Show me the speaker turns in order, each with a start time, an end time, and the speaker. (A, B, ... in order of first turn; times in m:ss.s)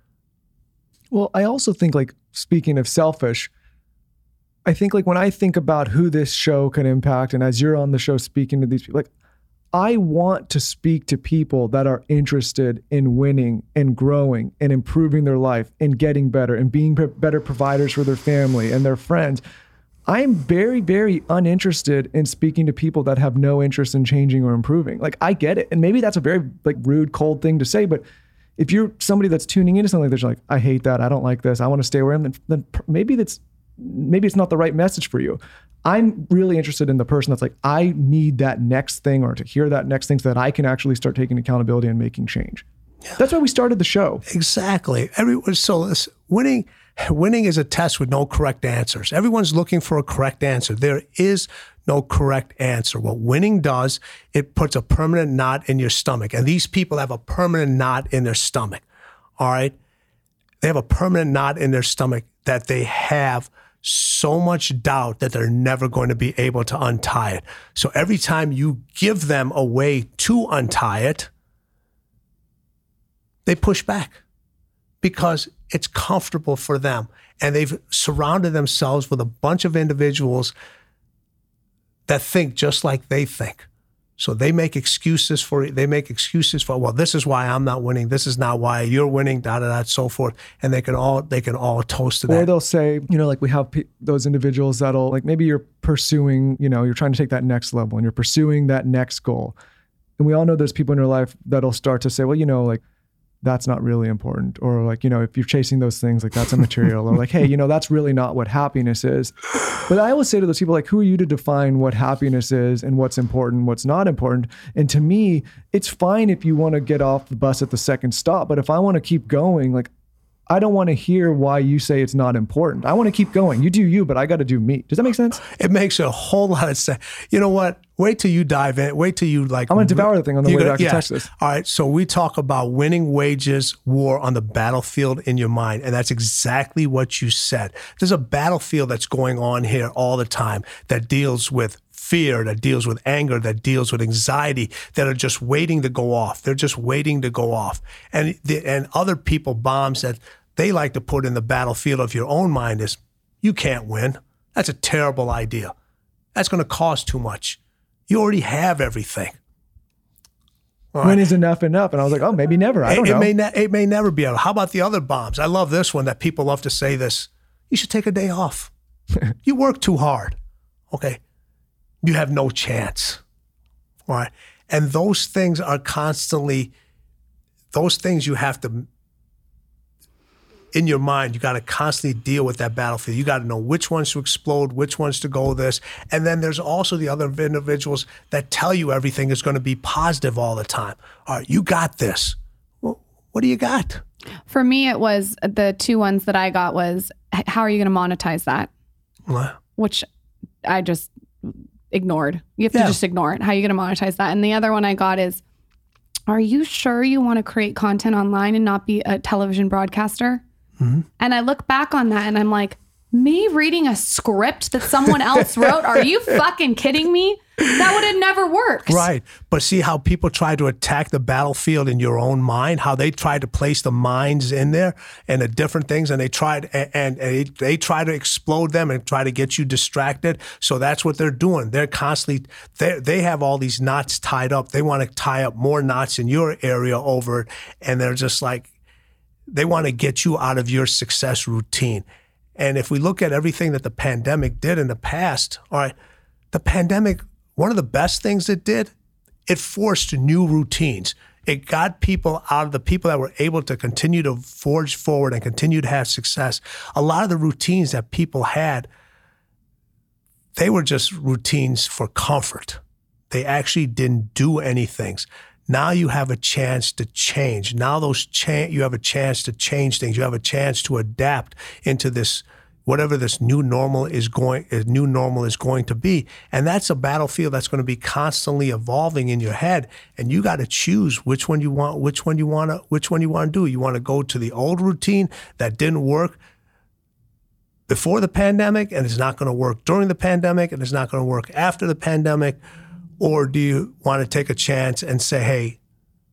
0:01.1-0:03.5 A
0:04.6-0:09.1 A
0:09.7-0:19.4 A
0:20.1-0:28.0 A
0:28.6-0:42.6 A
0:43.2-0:44.2 A
0:44.3-0:58.8 B
0:59.4-0:59.8 B
1:00.6-1:11.3 B
1:13.5-1:14.2 B
1:15.0-1:20.5 B
1:22.1-1:23.7 B
1:24.2-1:32.5 B
1:32.3-1:39.6 A
1:40.2-1:42.8 A
1:43.4-1:49.4 A
1:49.9-1:59.9 A
2:00.5-2:05.4 A
2:05.4-2:35.7 B
2:09.7-2:11.3 A
2:36.4-2:39.4 B
2:40.9-2:41.2 B
2:41.0-2:43.3 A
2:42.9-2:48.7 B
2:49.4-2:50.4 B
2:50.9-2:51.2 B
2:52.0-2:53.2 B
2:54.1-2:56.7 B
2:57.7-2:58.9 B
3:00.7-3:14.0 B
3:14.5-3:18.7 C
3:19.3-3:19.6 B
3:19.8-3:20.0 C
3:20.6-3:25.4 C
3:22.7-3:23.0 B
3:26.3-3:30.4 C
3:30.8-3:31.1 B
3:31.2-3:39.1 C
3:38.9-3:58.7 B
3:59.5-4:02.0 B
4:02.6-4:05.9 B
4:06.5-4:08.9 B
4:09.5-4:18.9 B
4:20.6-4:46.4 B
4:47.9-4:52.6 B
4:53.2-4:55.8 B